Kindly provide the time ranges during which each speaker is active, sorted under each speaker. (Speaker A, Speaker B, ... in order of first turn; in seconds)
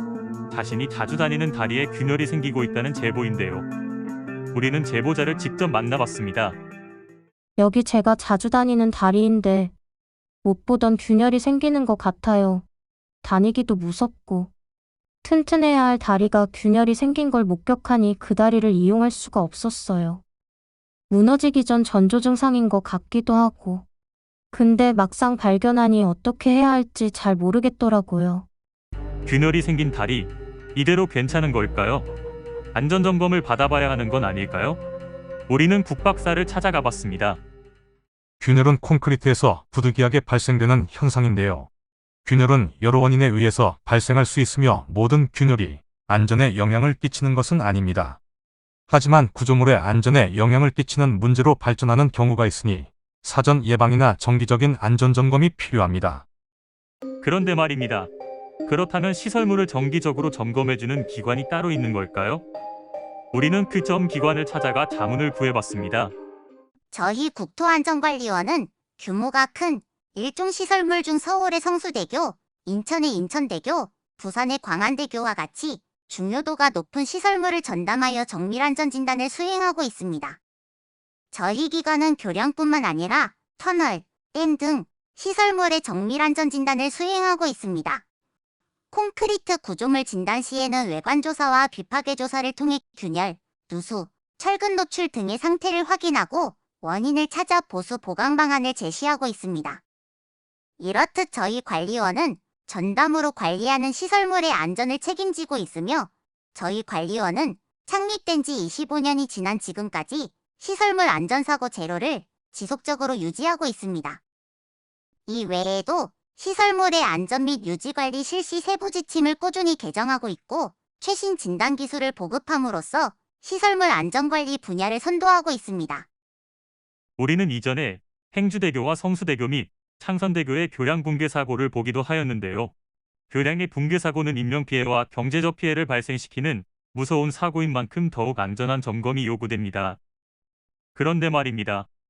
Speaker A: 0.5-3.7, 4.5-6.6, 29.2-32.1, 32.7-34.8, 35.5-37.4, 57.2-58.1, 58.6-62.4, 63.3-66.1, 127.2-132.7, 133.3-140.0, 140.9-141.9
Speaker B: 7.5-9.7, 10.4-12.7, 13.2-14.5, 15.2-20.2, 21.1-23.9, 24.5-28.5
Speaker C: 38.4-41.7, 42.2-48.2, 48.9-56.2
Speaker D: 66.9-80.4, 81.3-88.0, 88.9-99.8, 100.8-114.2, 115.3-126.0